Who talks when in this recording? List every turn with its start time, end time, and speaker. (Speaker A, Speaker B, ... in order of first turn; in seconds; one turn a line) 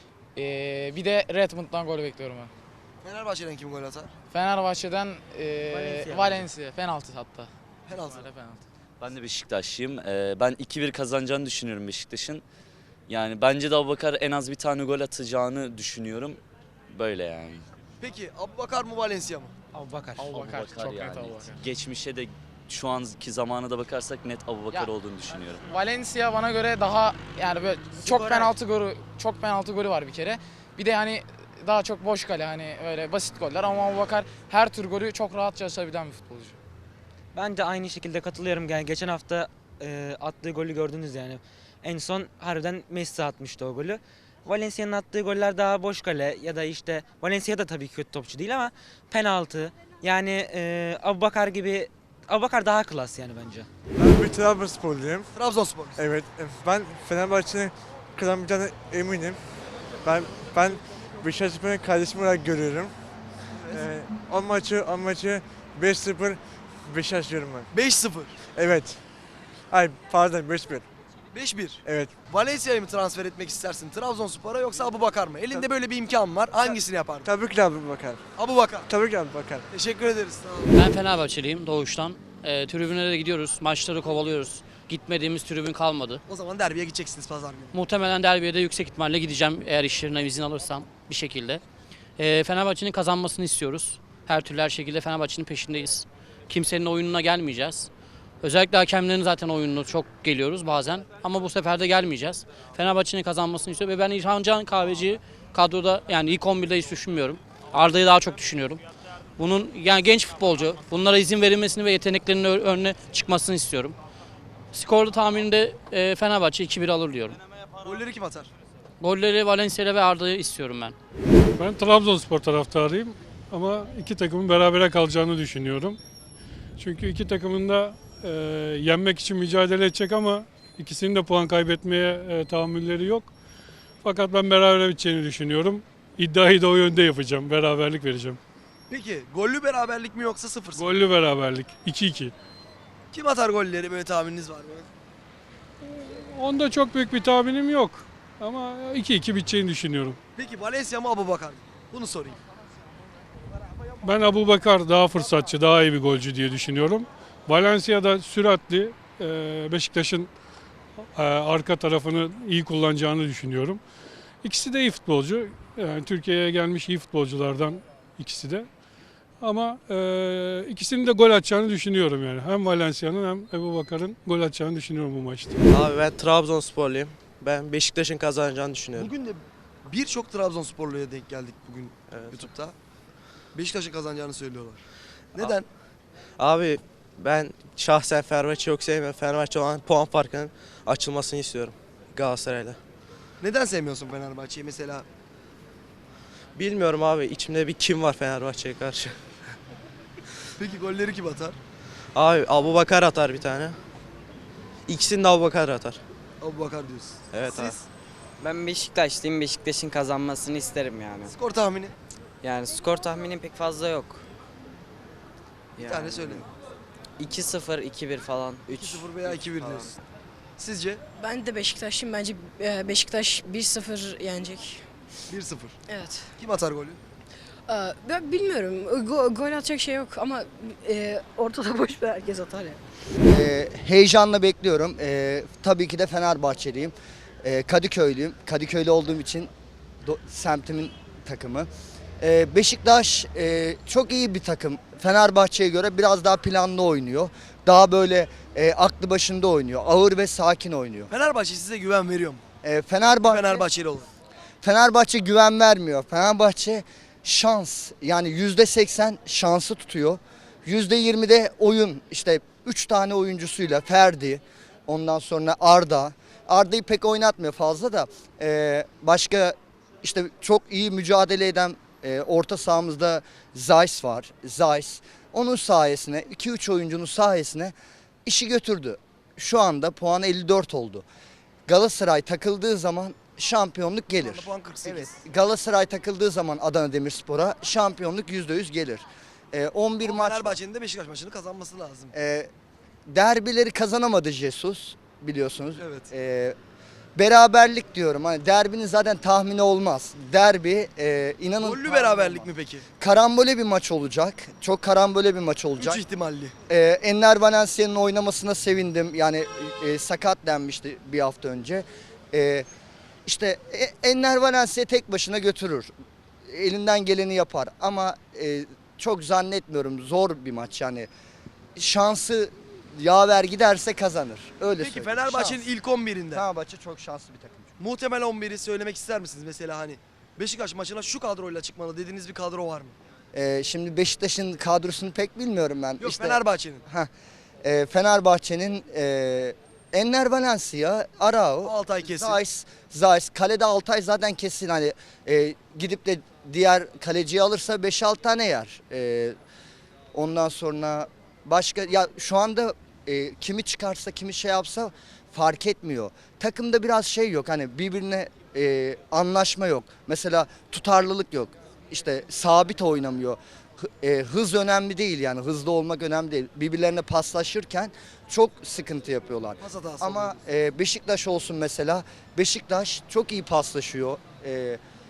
Speaker A: 0.4-2.5
Speaker B: 3.0-4.1
Speaker A: 4.3-7.5
Speaker C: 5.7-6.5
Speaker B: 7.9-8.3
Speaker A: 8.0-8.6
Speaker D: 9.0-12.4
Speaker D: 13.1-17.6
Speaker B: 18.0-19.5
Speaker C: 19.7-20.3
Speaker A: 20.2-21.6
Speaker D: 20.2-25.7
Speaker A: 24.7-36.6
Speaker C: 28.0-28.5
Speaker C: 37.3-53.7
Speaker E: 54.0-55.3
Speaker B: 55.3-56.0
Speaker E: 56.0-59.4
Speaker E: 60.0-62.9
Speaker B: 63.5-63.9
Speaker E: 63.7-67.7
Speaker B: 67.7-68.4
Speaker E: 68.5-69.0
Speaker E: 69.7-70.9
Speaker B: 71.3-77.3
Speaker E: 71.8-72.2
Speaker E: 76.7-78.2
Speaker B: 78.3-78.9
Speaker E: 78.9-79.7
Speaker B: 79.7-80.8
Speaker F: 80.7-86.2
Speaker B: 86.3-87.8
Speaker F: 87.7-91.6
Speaker F: 92.2-97.9
Speaker F: 98.4-108.8
Speaker F: 109.4-114.0
Speaker F: 114.7-117.4
Speaker B: 117.8-118.5
Speaker F: 119.0-121.0
Speaker G: 121.6-126.0
Speaker G: 126.8-133.3
Speaker G: 134.0-138.4
Speaker B: 138.9-140.9
Speaker G: 140.8-142.3
Speaker B: 143.1-144.9
Speaker G: 145.8-150.2
Speaker B: 150.4-152.4
Speaker G: 154.0-160.3
Speaker G: 161.2-163.8
Speaker G: 164.4-168.7
Speaker G: 169.4-175.6
Speaker H: 175.7-179.1
Speaker B: 179.0-182.7
Speaker H: 182.1-182.5
Speaker B: 183.5-184.8
Speaker B: 185.3-185.7
Speaker H: 186.4-192.8
Speaker B: 193.4-195.1
Speaker H: 196.6-199.2
Speaker B: 200.6-201.6
Speaker H: 202.2-203.8
Speaker H: 204.9-206.0
Speaker B: 206.4-207.8
Speaker H: 207.3-207.8
Speaker I: 208.4-211.3
Speaker B: 211.3-211.9
Speaker I: 212.4-214.2
Speaker I: 215.8-216.4
Speaker B: 215.8-216.4
Speaker I: 217.2-219.9
Speaker B: 218.7-220.0
Speaker B: 220.6-221.0
Speaker J: 221.2-224.9
Speaker B: 225.3-225.8
Speaker J: 225.9-226.3
Speaker B: 226.4-227.0
Speaker J: 227.7-232.8
Speaker K: 233.2-239.5
Speaker K: 240.0-241.7
Speaker K: 242.2-251.1
Speaker B: 251.1-252.4
Speaker K: 252.6-253.7
Speaker B: 253.2-254.1
Speaker K: 254.6-277.7
Speaker K: 278.2-281.1
Speaker K: 281.7-290.6
Speaker B: 284.1-285.2
Speaker B: 290.0-292.1
Speaker K: 292.1-292.5
Speaker K: 293.1-296.6
Speaker B: 295.8-296.1
Speaker K: 297.2-306.0
Speaker B: 301.6-302.9
Speaker B: 305.8-306.6
Speaker K: 306.7-312.7
Speaker K: 313.3-315.9
Speaker K: 316.4-321.1
Speaker K: 321.8-325.6
Speaker B: 324.8-326.4
Speaker K: 326.3-327.7
Speaker B: 327.8-333.0
Speaker K: 333.3-337.1
Speaker B: 336.0-336.8
Speaker K: 337.6-349.4
Speaker B: 341.6-342.4
Speaker K: 350.1-374.8
Speaker B: 369.6-370.4